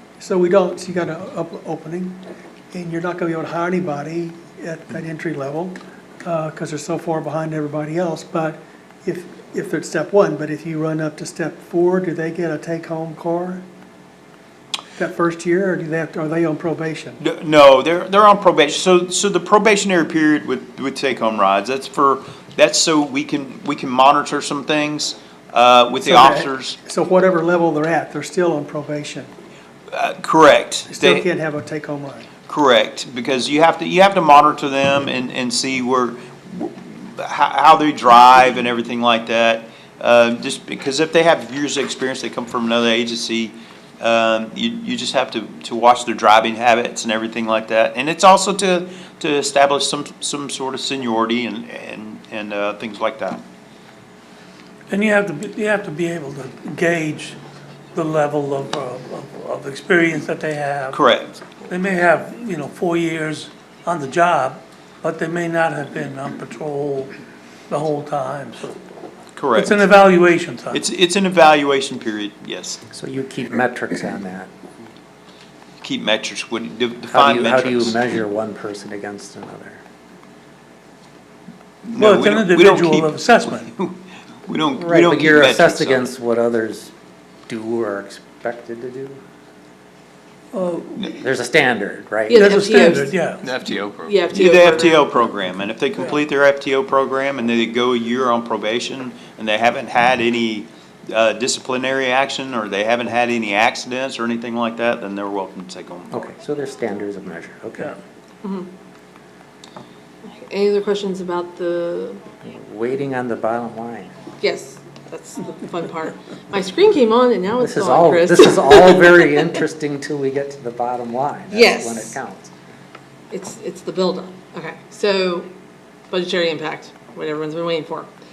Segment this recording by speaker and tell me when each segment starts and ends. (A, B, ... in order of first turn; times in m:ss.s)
0:00.2-0:13.6 A
0:15.0-0:17.2 A
0:17.2-0:26.8 B
0:26.0-0:29.3 A
0:29.9-0:31.3 B
0:30.9-0:32.3 A
0:32.5-0:53.4 B
0:54.9-0:57.4 C
0:58.0-1:01.0 C
1:00.9-1:01.4 B
1:01.6-1:07.1 C
1:07.7-1:08.8 C
1:09.4-1:09.8 B
1:09.5-1:10.8 C
1:10.7-1:12.8 B
1:12.9-1:14.5 D
1:15.8-1:18.0 B
1:17.1-1:19.8 D
1:21.8-1:26.0 B
1:22.0-1:23.7 C
1:24.8-1:26.9 D
1:27.5-1:29.2 D
1:30.5-1:31.1 C
1:31.2-1:32.5 D
1:32.3-1:33.2 E
1:32.3-1:33.5 C
1:33.4-1:46.2 B
1:34.0-1:35.3 E
1:46.1-1:48.0 D
1:48.4-1:48.7 E
1:50.3-1:52.2 E
1:52.4-1:54.1 D
1:54.4-1:59.4 E
1:57.6-2:02.5 D
2:01.5-2:02.2 E
2:03.3-2:05.5 E
2:06.1-2:08.1 E